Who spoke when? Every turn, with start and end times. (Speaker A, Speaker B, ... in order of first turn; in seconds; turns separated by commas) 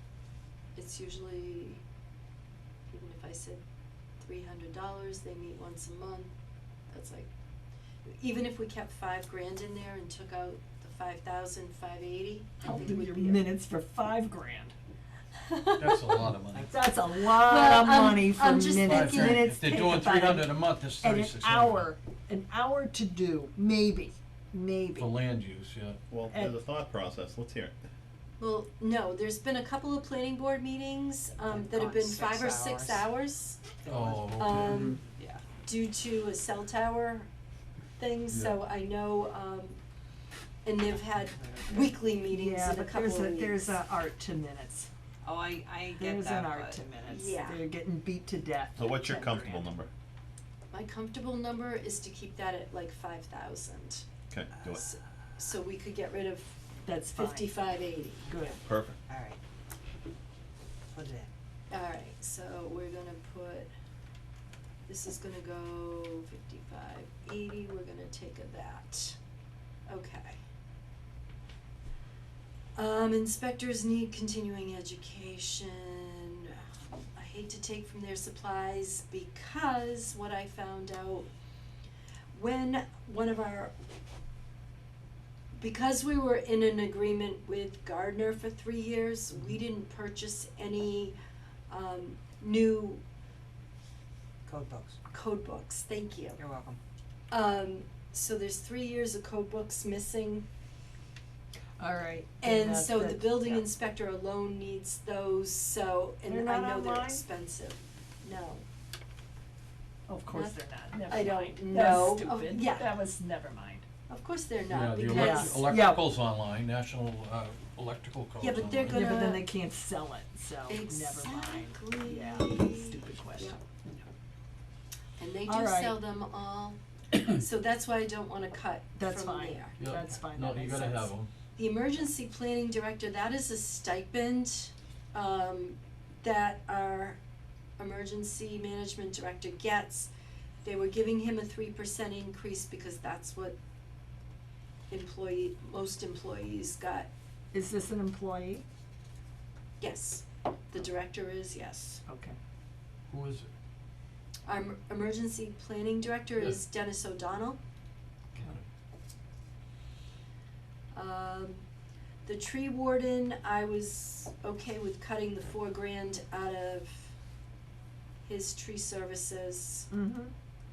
Speaker A: 0.7-1.8, Speaker A: 2.9-3.6, Speaker A: 4.2-6.3, Speaker A: 6.9-7.3, Speaker A: 8.1-13.4, Speaker B: 12.6-14.7, Speaker A: 15.5-16.0, Speaker C: 15.8-16.7, Speaker D: 16.5-16.8, Speaker B: 16.7-25.1, Speaker A: 17.1-19.5, Speaker C: 18.7-21.9, Speaker C: 25.0-26.0, Speaker E: 26.1-27.9, Speaker B: 26.3-26.6, Speaker A: 28.4-33.6, Speaker D: 31.5-33.1, Speaker D: 33.8-35.4, Speaker C: 33.9-34.9, Speaker A: 34.4-35.0, Speaker A: 35.6-37.3, Speaker A: 38.0-39.8, Speaker A: 40.6-43.8, Speaker D: 40.9-42.0, Speaker B: 42.3-44.9, Speaker D: 45.2-46.8, Speaker B: 45.9-49.7, Speaker A: 47.0-47.6, Speaker E: 48.8-49.9, Speaker A: 50.7-54.1, Speaker E: 54.3-54.9, Speaker D: 54.5-55.0, Speaker A: 54.7-58.3, Speaker B: 56.8-57.5, Speaker D: 58.2-59.4, Speaker B: 58.3-58.6, Speaker E: 58.6-59.0, Speaker D: 60.9-61.3, Speaker A: 61.7-63.7, Speaker A: 64.9-69.2, Speaker A: 69.9-70.4, Speaker A: 72.8-81.3, Speaker A: 82.3-83.7, Speaker A: 85.5-91.2, Speaker A: 91.7-93.0, Speaker D: 94.5-95.0, Speaker A: 95.1-96.4, Speaker D: 96.3-96.8, Speaker A: 97.3-100.5, Speaker B: 101.8-103.7, Speaker A: 102.4-108.6, Speaker B: 106.2-107.2, Speaker B: 110.1-113.8, Speaker A: 110.3-112.9, Speaker A: 114.1-115.7, Speaker C: 114.7-119.2, Speaker B: 115.1-116.0, Speaker A: 118.4-119.5, Speaker B: 118.9-124.0, Speaker A: 120.7-123.6, Speaker A: 125.2-129.8, Speaker B: 125.5-126.0, Speaker B: 128.9-131.1, Speaker C: 129.8-131.3, Speaker A: 131.6-137.2, Speaker A: 137.8-140.1, Speaker A: 140.6-143.6, Speaker A: 144.9-147.1, Speaker B: 147.5-148.6, Speaker A: 149.8-152.0, Speaker B: 152.1-152.4, Speaker C: 153.1-153.5, Speaker A: 154.4-157.6, Speaker A: 160.9-161.6, Speaker A: 162.2-167.1, Speaker A: 168.2-169.9, Speaker B: 169.9-170.3